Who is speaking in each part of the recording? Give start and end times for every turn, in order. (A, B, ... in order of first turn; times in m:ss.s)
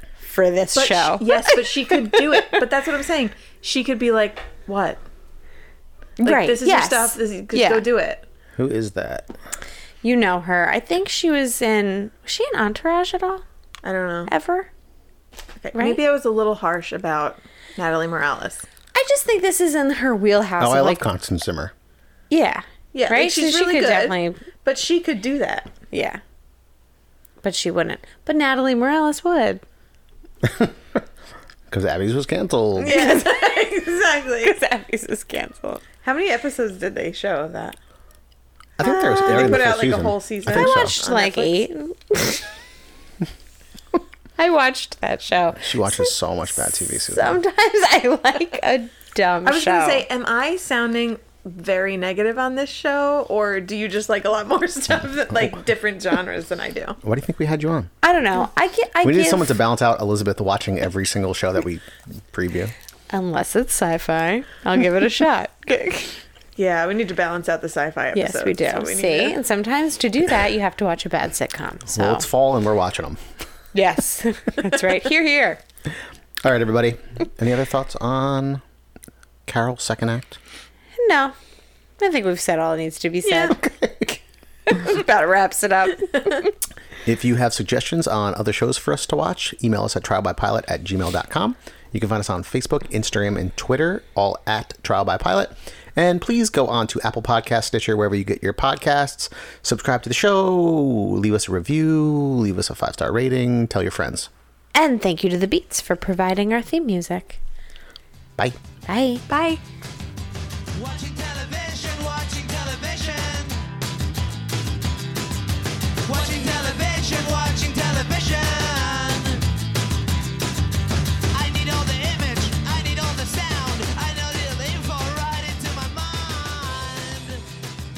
0:00.2-0:02.5 A
0:00.7-0:05.0 B
0:06.2-0:07.8 A
0:06.2-0:08.2 B
0:08.6-0:09.3 C
0:10.0-0:13.4 A
0:13.8-0:14.3 B
0:14.3-0:14.7 A
0:15.6-0:18.6 B
0:15.7-0:16.0 A
0:18.9-0:21.0 A
0:20.6-0:21.7 C
0:22.3-0:24.4 A
0:22.9-0:25.7 B
0:25.9-0:26.2 A
0:27.4-0:29.6 A
0:30.4-0:30.7 C
0:31.7-0:33.0 C
0:32.8-0:33.7 A
0:32.8-0:34.5 B
0:34.4-0:35.8 A
0:36.0-0:37.8 B
0:38.8-0:40.9 C
0:38.8-0:41.6 B
0:38.8-0:39.5 A
0:40.4-0:42.4 A
0:44.4-0:50.0 A
0:45.6-0:47.4 C
0:49.4-0:57.0 B
0:57.0-0:57.9 C
0:58.0-0:59.6 A
0:59.0-1:02.7 C
1:03.1-1:06.2 A
1:06.6-1:09.4 B
1:08.1-1:12.2 A
1:11.9-1:13.2 C
1:13.7-1:15.6 A
1:16.4-1:18.6 C
1:19.4-1:20.4 C
1:21.0-1:21.4 A
1:22.0-1:23.7 A
1:23.2-1:23.5 B
1:23.8-1:24.0 C
1:24.7-1:26.5 A
1:27.0-1:44.3 C
1:44.7-1:47.4 A
1:48.9-1:49.6 A
1:50.7-1:53.6 D
1:56.0-1:59.5 D
2:01.3-2:07.4 D